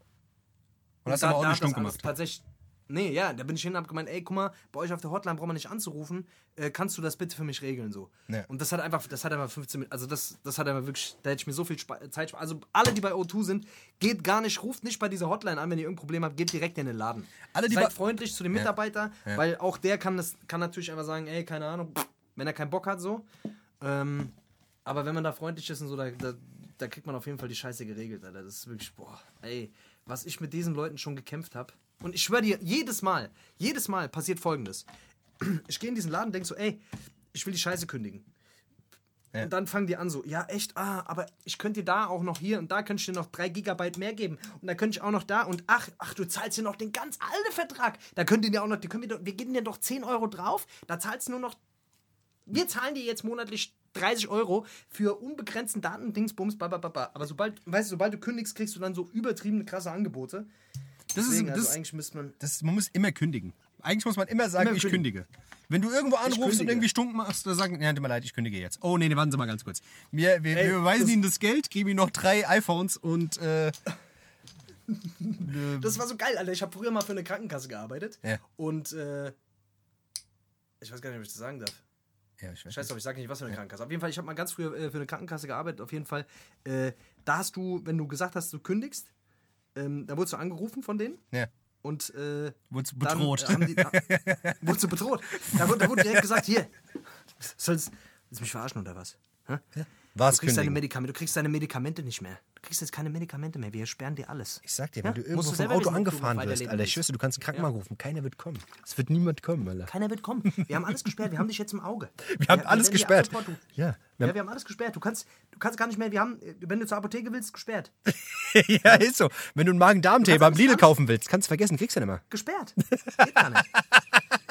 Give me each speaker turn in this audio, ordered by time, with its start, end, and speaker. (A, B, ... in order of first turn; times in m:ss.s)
0:01.0-0:02.1 A
0:01.0-0:23.3 B
0:17.5-0:18.0 A
0:23.8-0:24.3 B
0:24.8-0:34.9 B
0:35.4-0:36.8 B
0:37.3-0:38.3 B
0:39.4-0:51.6 B
0:52.5-1:00.5 B
1:01.1-1:01.8 A
1:01.1-1:02.4 B
1:02.4-1:13.8 A
1:04.6-1:05.1 B
1:06.2-1:06.9 B
1:10.5-1:11.2 B
1:14.9-1:19.4 B
1:15.4-1:16.0 A
1:20.8-1:21.8 B
1:22.4-1:22.9 A
1:22.7-1:29.1 B
1:29.8-1:31.2 B
1:31.8-1:36.7 B
1:32.7-1:34.7 A
1:35.5-1:36.4 A
1:37.4-1:39.7 B
1:39.8-1:40.8 A
1:40.3-1:47.7 B
1:44.6-1:49.9 A
1:49.9-1:57.9 B
1:50.6-1:50.8 A
1:52.2-1:54.4 A
1:58.2-2:02.2 A
2:00.2-2:00.9 B
2:02.3-2:03.7 B